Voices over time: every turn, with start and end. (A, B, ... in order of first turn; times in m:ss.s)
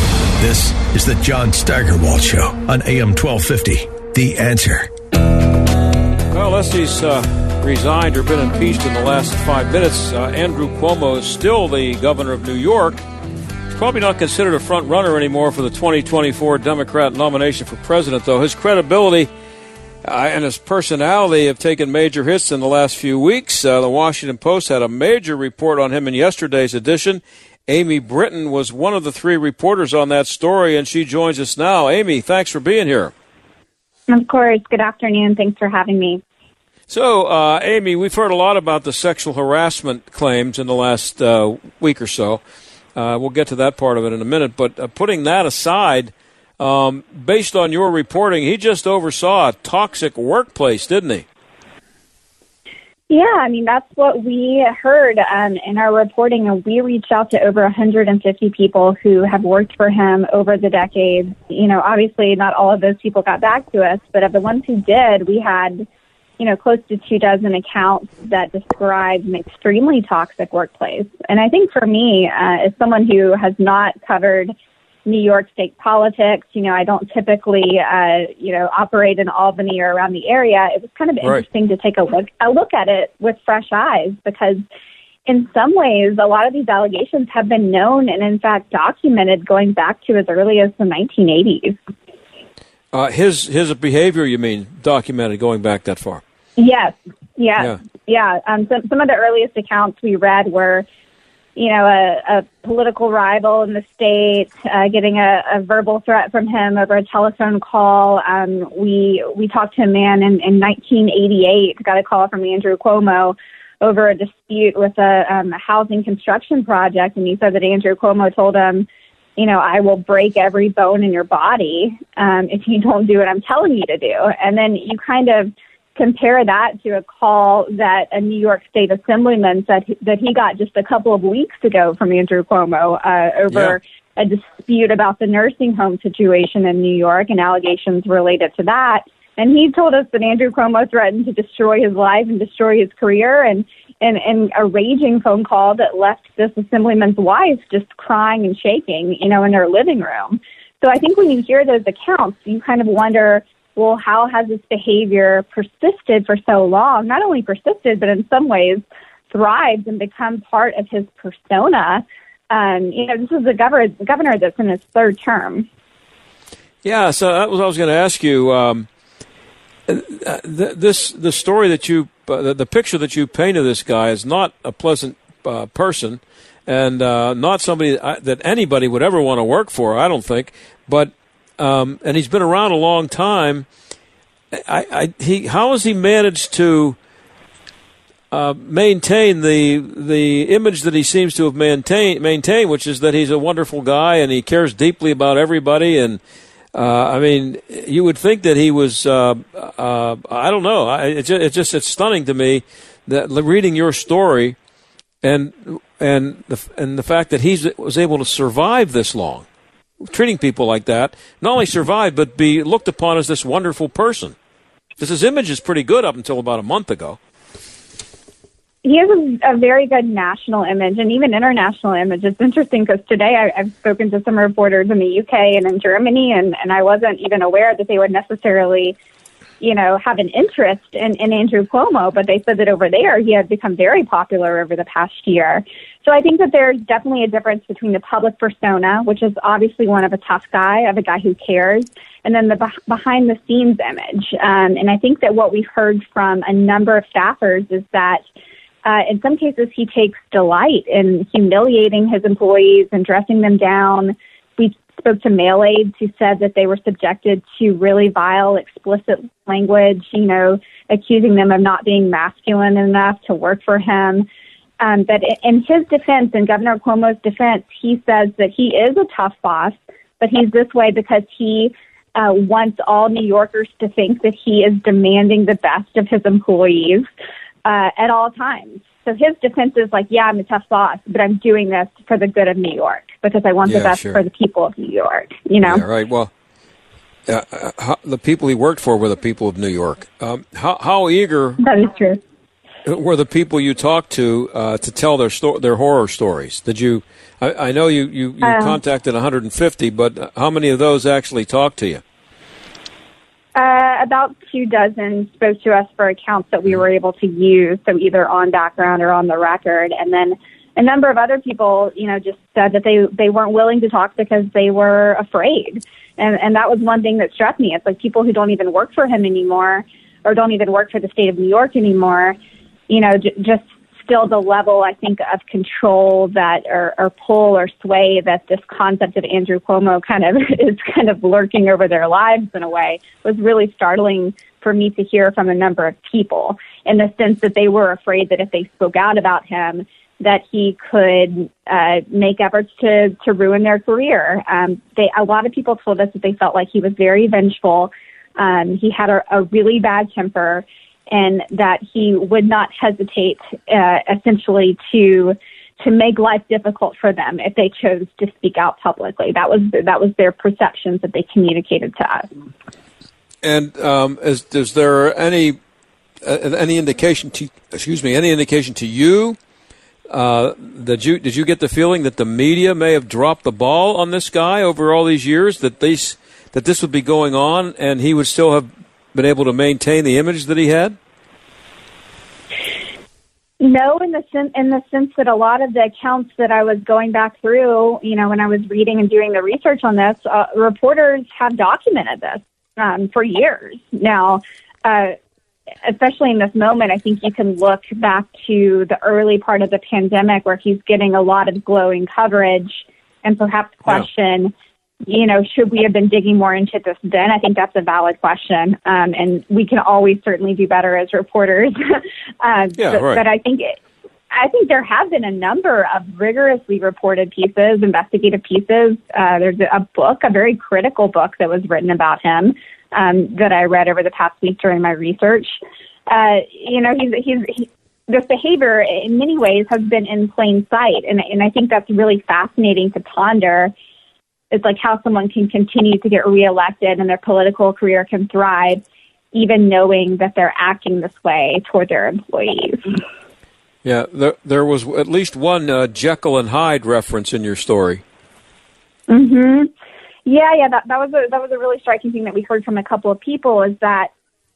0:00.4-0:04.9 A
0:06.3-0:13.0 B
0:13.7-0:19.3 B
0:20.0-0:33.1 B
0:34.1-0:36.2 C
0:36.9-0:42.4 B
0:43.0-0:51.2 B
0:53.1-1:05.8 C
1:06.4-1:14.5 C
1:15.1-1:24.6 C
1:25.3-1:31.8 C
1:32.9-1:36.2 B
1:36.6-1:40.9 C
1:41.6-2:45.7 C
2:13.5-2:13.8 B
2:46.8-2:48.9 B
2:49.9-3:03.7 B
3:04.5-3:07.0 B
3:08.3-3:16.2 B
3:16.7-3:24.6 B
3:25.2-3:29.5 B
3:30.0-3:34.4 B
3:35.0-3:37.2 B
3:38.8-3:49.0 C
3:49.6-4:08.2 C
4:08.8-4:24.3 C
4:24.8-4:37.1 C
4:37.6-4:45.8 C
4:43.6-4:44.2 B
4:45.6-4:46.3 B
4:47.3-4:51.6 B
4:51.6-4:52.2 C
4:52.8-5:02.0 B
4:58.4-4:58.8 C
5:03.6-5:22.4 C
5:22.9-6:02.3 C
6:03.4-6:05.6 B
6:06.2-6:09.4 B
6:10.1-6:21.0 B
6:23.6-6:35.2 C
6:35.8-6:44.5 C
6:45.1-6:53.8 C
6:52.8-6:53.2 B
6:54.3-7:05.6 C
7:06.1-7:13.7 C
7:14.5-7:18.8 C
7:19.3-7:23.0 C
7:23.8-7:28.0 B
7:29.1-7:29.7 C
7:30.3-7:34.1 C